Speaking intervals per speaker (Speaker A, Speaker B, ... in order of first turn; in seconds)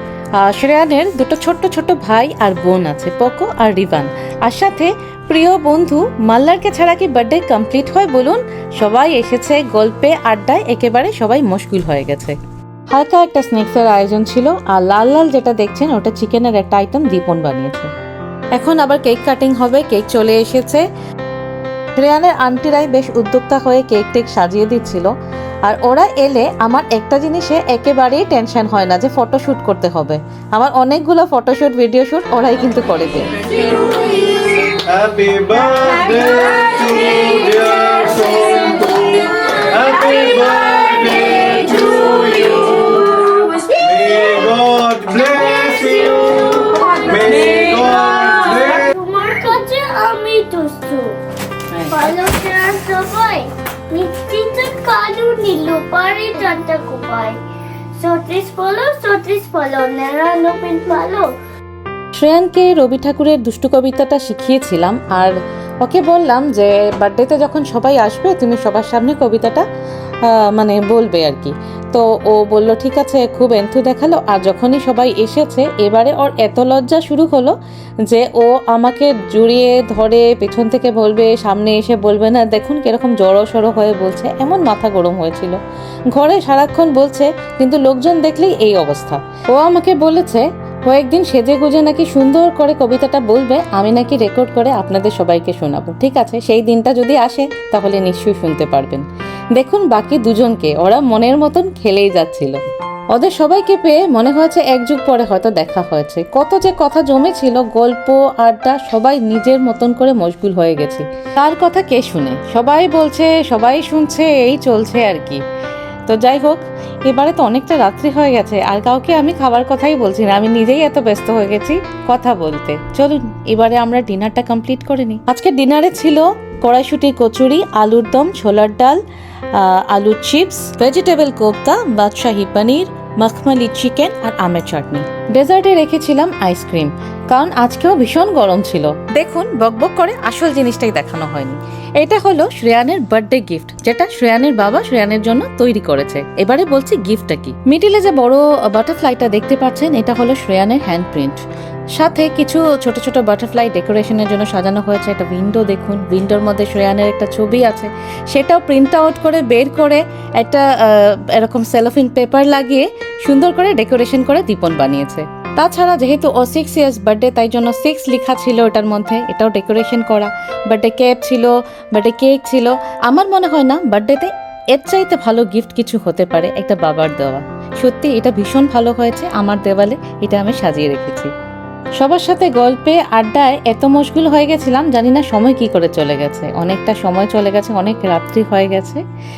Speaker A: 0.4-12.4, 12.9-17.9, 18.6-20.9, 22.0-25.1, 25.6-33.4, 46.8-47.5, 51.7-52.0, 62.1-69.7, 70.2-77.6, 78.1-115.4, 116.1-129.0, 129.5-151.4, 152.0-181.3, 182.0-189.0
Speaker B: 34.8-48.9
Speaker C: 45.7-46.7, 47.5-51.2, 51.9-57.4, 58.0-61.3